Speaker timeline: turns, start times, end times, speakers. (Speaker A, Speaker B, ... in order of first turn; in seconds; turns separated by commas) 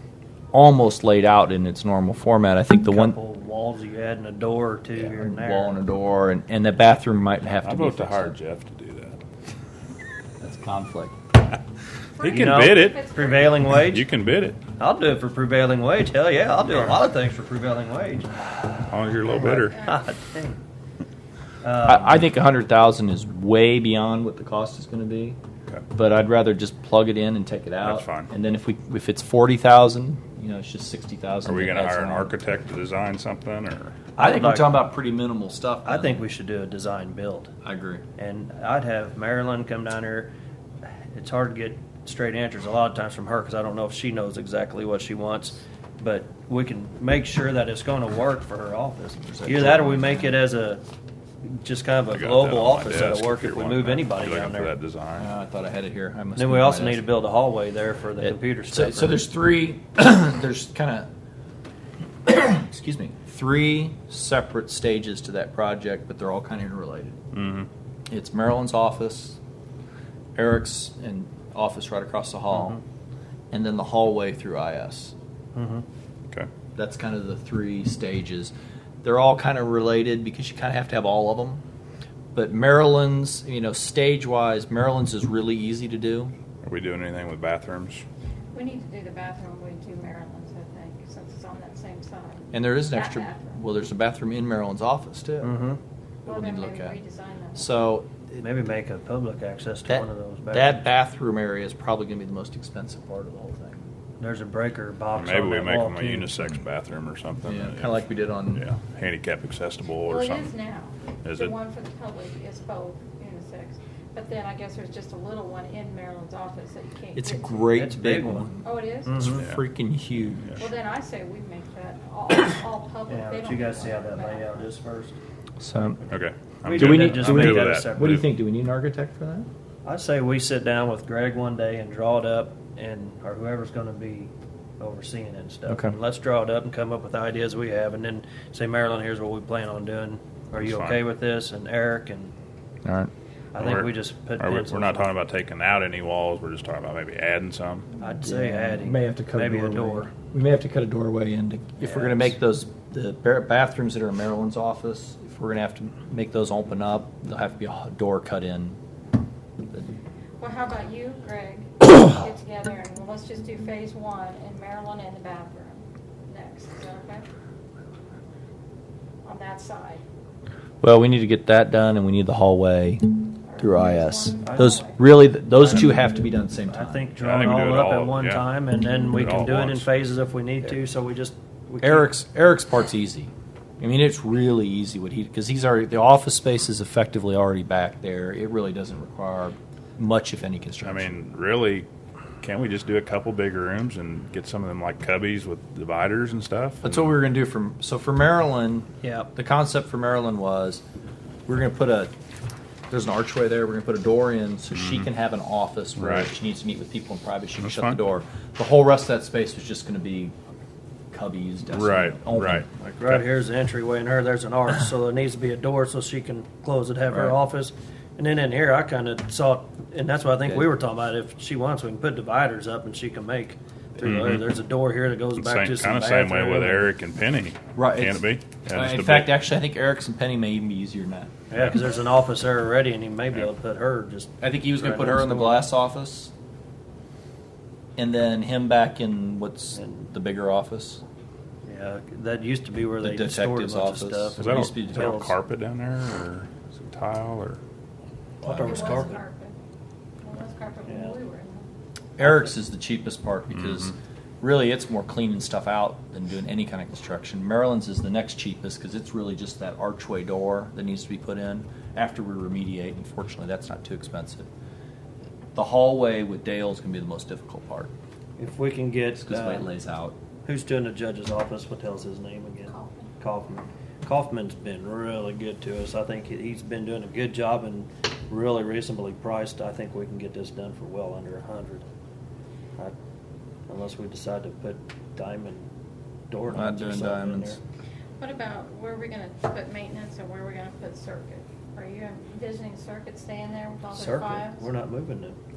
Speaker A: 0.5-3.2, Speaker B: 2.8-5.8, Speaker A: 5.0-8.3, Speaker C: 7.6-9.2, Speaker A: 10.4-11.2, Speaker D: 12.2-13.7, Speaker C: 12.2-13.0, Speaker B: 12.3-14.1, Speaker C: 13.8-14.6, Speaker B: 14.8-18.7, Speaker C: 18.9-19.8, Speaker B: 19.4-20.6, Speaker B: 21.6-22.3, Speaker A: 21.9-25.4, Speaker A: 25.9-32.4, Speaker C: 27.8-28.3, Speaker C: 31.4-34.0, Speaker B: 34.2-34.8, Speaker A: 34.2-36.2, Speaker B: 35.9-37.5, Speaker A: 37.6-38.0, Speaker B: 38.2-40.3, Speaker B: 40.9-50.8, Speaker A: 49.2-50.4, Speaker B: 51.5-54.7, Speaker C: 52.1-55.3, Speaker A: 55.2-57.1, Speaker B: 56.4-59.2, Speaker A: 58.2-61.1, Speaker A: 62.2-67.2, Speaker C: 67.3-67.7, Speaker A: 68.1-69.4, Speaker A: 70.3-72.8, Speaker B: 72.5-72.8, Speaker A: 73.5-75.1, Speaker B: 75.6-75.8, Speaker A: 76.8-78.5, Speaker A: 79.0-81.6, Speaker A: 82.3-86.3, Speaker C: 86.6-88.0, Speaker D: 88.5-93.6, Speaker A: 92.5-95.6, Speaker B: 95.4-95.8, Speaker A: 96.2-97.0, Speaker D: 96.2-97.7, Speaker A: 97.6-98.5, Speaker B: 98.4-100.8, Speaker A: 99.9-103.8, Speaker B: 104.2-106.4, Speaker C: 105.2-108.0, Speaker A: 107.5-108.6, Speaker C: 108.5-110.5, Speaker D: 110.1-117.8, Speaker C: 111.2-111.5, Speaker A: 117.2-120.7, Speaker B: 117.7-118.5, Speaker D: 118.6-119.2, Speaker B: 119.1-119.4, Speaker C: 119.4-119.6, Speaker D: 120.6-124.6, Speaker B: 123.1-125.2, Speaker A: 125.6-126.0, Speaker C: 126.1-128.2, Speaker B: 126.7-128.3, Speaker A: 126.7-129.5, Speaker B: 129.8-142.3, Speaker A: 135.7-136.0, Speaker C: 140.6-141.0, Speaker A: 142.8-143.1, Speaker B: 143.5-145.1, Speaker C: 143.6-147.9, Speaker B: 148.0-150.1, Speaker A: 148.2-158.8, Speaker B: 151.8-152.3, Speaker D: 160.4-167.2, Speaker D: 169.2-170.0, Speaker A: 170.8-177.1, Speaker D: 173.4-175.0, Speaker B: 174.4-174.8, Speaker B: 176.7-182.1, Speaker C: 177.2-179.9, Speaker A: 181.8-191.1, Speaker C: 190.8-191.9, Speaker C: 192.4-197.0, Speaker A: 196.8-200.8, Speaker B: 199.0-199.3, Speaker A: 201.5-202.1, Speaker A: 202.9-210.3, Speaker C: 204.8-205.1, Speaker C: 206.0-206.3, Speaker C: 207.6-208.0, Speaker A: 211.1-213.0, Speaker C: 211.7-213.2, Speaker B: 213.0-226.8, Speaker C: 224.0-224.4, Speaker C: 225.4-229.4, Speaker A: 227.8-231.3, Speaker B: 231.5-235.7, Speaker A: 234.4-236.3, Speaker A: 238.0-241.0, Speaker B: 239.8-240.1, Speaker B: 241.7-245.3, Speaker A: 243.0-245.3, Speaker C: 244.4-247.6, Speaker B: 248.4-249.2, Speaker A: 248.4-249.2, Speaker D: 248.4-249.6, Speaker D: 250.2-251.7, Speaker B: 250.9-251.2, Speaker A: 252.2-264.5, Speaker A: 265.5-267.9, Speaker B: 268.4-269.7, Speaker A: 269.2-270.1, Speaker B: 270.5-281.9, Speaker D: 272.7-273.1, Speaker B: 283.7-285.7, Speaker B: 286.3-287.6, Speaker A: 286.5-287.6, Speaker D: 288.2-294.6, Speaker B: 293.9-295.4